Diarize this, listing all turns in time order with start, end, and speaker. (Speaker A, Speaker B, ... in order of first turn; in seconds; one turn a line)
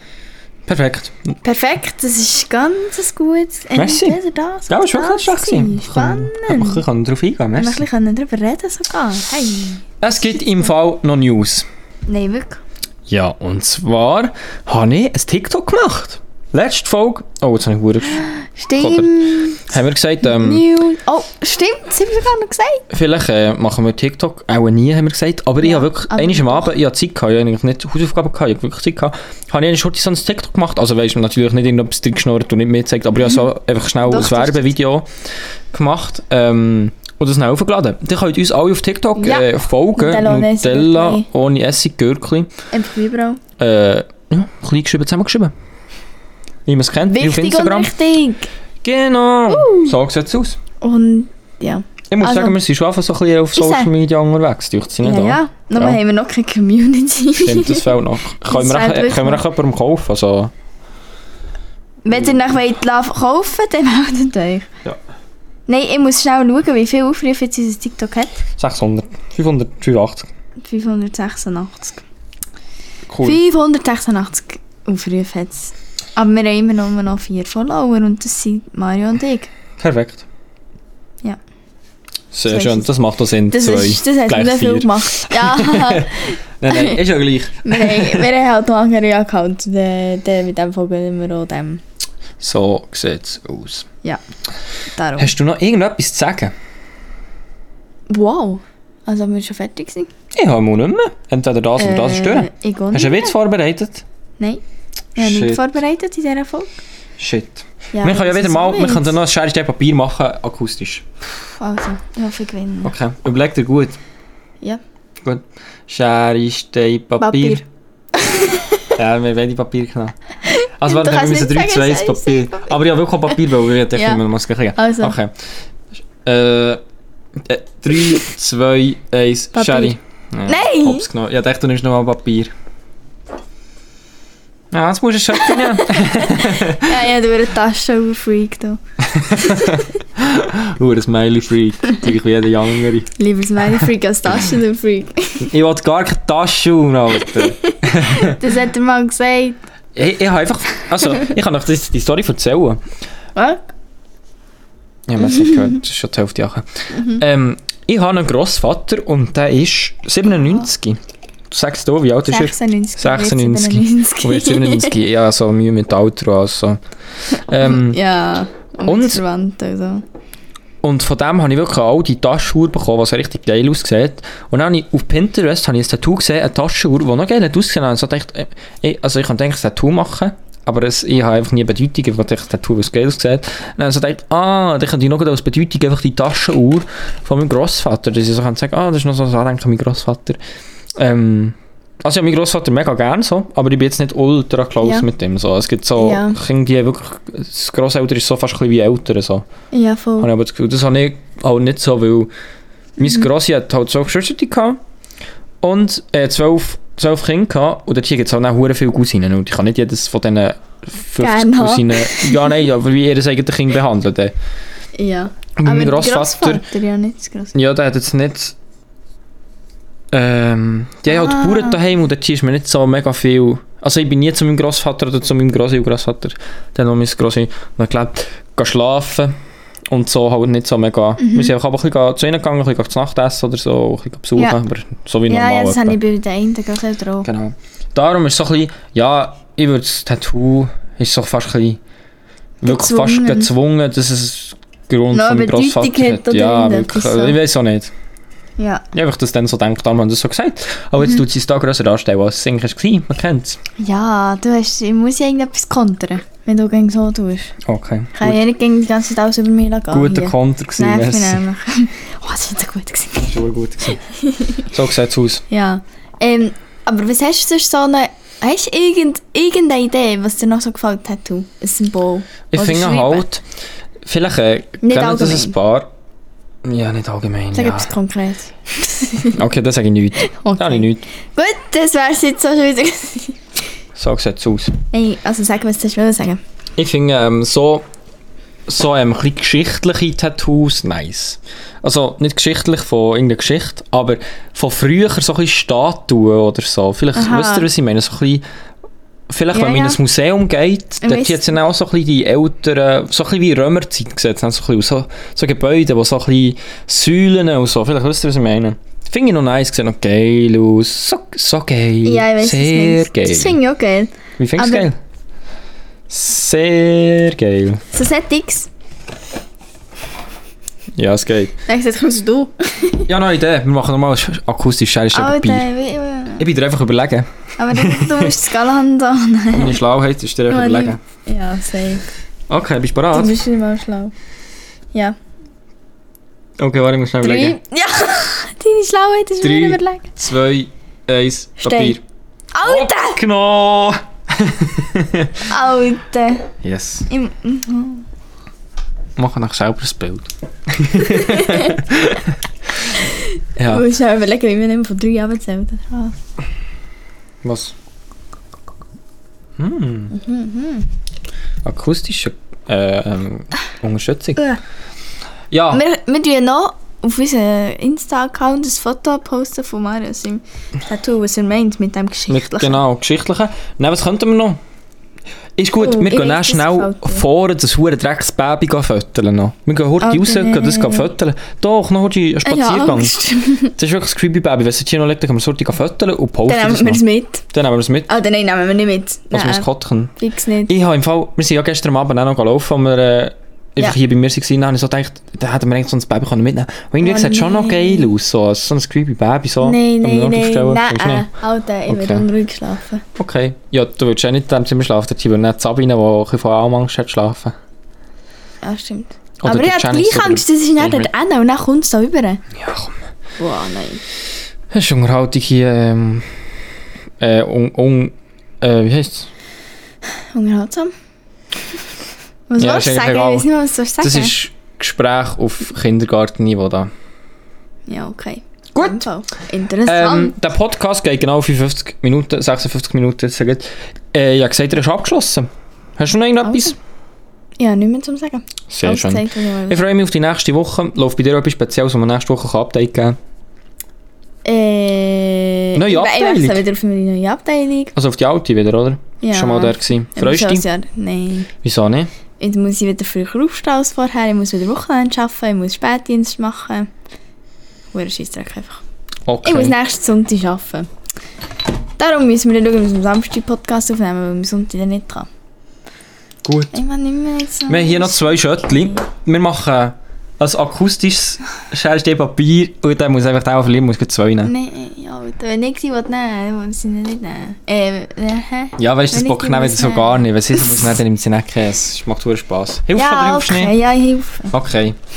Speaker A: 0.7-1.4
Speaker B: 1.4-6.8
Speaker A: 3.8-7.8
Speaker B: 7.6-9.8
Speaker A: 10.0-11.7
Speaker B: 12.1-12.6
Speaker A: 13.1-20.7
Speaker B: 18.1-19.7
Speaker B: 20.2-22.9
Speaker A: 22.9-35.1
Speaker B: 25.6-26.7
Speaker B: 34.1-34.7
Speaker A: 35.7-42.5
Speaker B: 39.2-41.3
Speaker B: 42.7-43.4
Speaker A: 43.6-45.5
Speaker A: 46.7-47.9
Speaker B: 47.1-48.5
Speaker A: 48.8-50.6
Speaker B: 49.5-50.0
Speaker B: 50.8-52.6
Speaker A: 52.1-56.0
Speaker B: 53.5-53.9
Speaker B: 55.0-57.9
Speaker A: 57.4-60.5
Speaker B: 58.5-59.4
Speaker B: 62.0-64.7
Speaker B: 65.7-68.5
Speaker A: 68.6-70.3
Speaker B: 70.6-72.0
Speaker A: 73.1-73.4
Speaker B: 73.2-79.5
Speaker A: 79.8-80.2
Speaker A: 82.3-88.3
Speaker B: 82.5-82.9
Speaker B: 83.5-87.0
Speaker B: 87.6-91.8
Speaker A: 92.4-93.9
Speaker B: 94.9-95.3
Speaker A: 95.2-96.5
Speaker B: 98.1-100.1
Speaker A: 100.3-104.0
Speaker B: 101.8-103.3
Speaker A: 105.2-105.6
Speaker B: 105.2-106.8
Speaker A: 107.2-111.0
Speaker B: 107.9-109.1
Speaker B: 111.6-112.9
Speaker A: 112.8-114.0
Speaker A: 115.2-117.6
Speaker B: 117.2-117.6
Speaker B: 118.2-118.9
Speaker A: 119.0-120.1
Speaker B: 120.5-122.7
Speaker A: 120.8-125.3
Speaker B: 123.9-124.2
Speaker B: 124.8-125.1
Speaker A: 126.2-126.8
Speaker A: 127.4-132.5
Speaker B: 129.6-131.1
Speaker A: 134.7-137.0
Speaker B: 135.8-139.8
Speaker A: 139.1-143.1
Speaker B: 143.2-145.5
Speaker A: 145.4-148.4
Speaker B: 147.3-149.6
Speaker A: 149.9-152.8
Speaker B: 153.4-153.6
Speaker A: 155.1-161.0
Speaker B: 155.2-155.8
Speaker B: 156.9-157.2
Speaker A: 161.5-166.8
Speaker B: 162.3-164.9
Speaker A: 167.3-168.0
Speaker B: 167.6-170.0
Speaker A: 168.8-169.2
Speaker A: 170.8-190.4
Speaker A: 191.0-199.4
Speaker B: 196.0-196.4
Speaker B: 199.7-200.3
Speaker A: 200.2-202.3
Speaker A: 203.0-204.8
Speaker A: 205.6-214.3
Speaker B: 211.2-212.5
Speaker B: 215.0-217.5
Speaker A: 215.6-216.6
Speaker A: 217.5-218.6
Speaker A: 220.1-229.3
Speaker B: 221.1-221.8
Speaker A: 229.9-236.0
Speaker B: 231.2-231.5
Speaker B: 235.3-237.3
Speaker A: 237.2-241.8
Speaker B: 242.6-243.5
Speaker A: 242.6-247.9
Speaker B: 245.1-247.4
Speaker B: 248.6-248.8
Speaker A: 248.9-253.6
Speaker B: 253.8-257.6
Speaker A: 257.6-258.4
Speaker B: 258.1-264.6
Speaker A: 259.9-261.4
Speaker A: 263.2-264.0
Speaker A: 264.6-265.4
Speaker B: 265.5-273.2
Speaker A: 272.5-273.4
Speaker A: 274.0-275.9
Speaker B: 274.8-275.6
Speaker A: 276.6-277.9
Speaker B: 277.5-279.4
Speaker A: 279.3-281.0
Speaker B: 280.2-283.4
Speaker A: 283.9-284.8
Speaker B: 284.9-286.4
Speaker A: 286.8-287.8
Speaker A: 288.7-298.4
Speaker B: 297.1-297.7
Speaker A: 299.3-313.6
Speaker B: 299.5-300.0
Speaker B: 301.0-301.4
Speaker B: 312.0-314.9
Speaker A: 314.4-315.0
Speaker A: 316.1-317.8
Speaker B: 317.9-318.7
Speaker A: 321.0-321.5
Speaker B: 321.7-323.1
Speaker A: 323.1-325.7
Speaker B: 325.1-326.5
Speaker A: 326.4-328.3
Speaker B: 327.6-329.8
Speaker A: 329.5-331.0
Speaker B: 330.5-332.1
Speaker A: 332.5-333.4
Speaker B: 333.1-334.1
Speaker A: 336.6-337.6
Speaker B: 337.2-340.1
Speaker A: 339.4-342.0
Speaker B: 341.6-342.0
Speaker B: 342.5-343.2
Speaker A: 342.6-345.5
Speaker B: 345.5-346.5
Speaker A: 346.6-347.1
Speaker B: 347.1-348.1
Speaker A: 349.2-352.4
Speaker B: 351.0-351.8
Speaker B: 353.1-356.1
Speaker A: 353.6-353.9
Speaker A: 357.4-357.8
Speaker A: 359.6-360.1
Speaker B: 360.1-360.9
Speaker A: 361.6-364.4
Speaker A: 365.5-365.8
Speaker B: 365.7-372.8
Speaker A: 372.3-374.6
Speaker A: 375.6-383.1
Speaker B: 375.8-377.2
Speaker B: 380.0-381.1
Speaker B: 382.4-383.7
Speaker A: 383.7-388.1
Speaker B: 386.5-387.4
Speaker B: 388.1-389.7
Speaker A: 389.3-390.1
Speaker B: 390.2-390.7
Speaker A: 390.7-401.3
Speaker B: 397.0-398.1
Speaker B: 399.6-403.0
Speaker A: 401.9-402.3
Speaker A: 403.2-407.6
Speaker B: 408.6-412.4
Speaker A: 409.4-411.1
Speaker A: 412.6-413.0
Speaker B: 413.4-414.0
Speaker A: 414.7-416.4
Speaker A: 417.2-419.3
Speaker B: 420.3-420.9
Speaker B: 422.5-424.4
Speaker A: 422.6-426.9
Speaker B: 427.9-430.3
Speaker A: 428.7-429.1
Speaker A: 429.8-436.8
Speaker B: 436.4-436.8
Speaker B: 437.6-439.9
Speaker A: 438.7-443.2
Speaker B: 444.4-447.9
Speaker A: 445.8-446.6
Speaker A: 447.9-450.6
Speaker B: 449.2-451.5
Speaker A: 451.6-452.1
Speaker B: 452.4-456.9
Speaker B: 457.9-458.8
Speaker A: 459.3-459.8
Speaker B: 459.4-460.9
Speaker B: 462.0-465.3
Speaker A: 466.4-466.8
Speaker B: 466.7-469.0
Speaker A: 467.7-474.5
Speaker B: 474.4-480.6
Speaker A: 478.8-483.8
Speaker B: 482.9-484.5
Speaker A: 484.5-485.0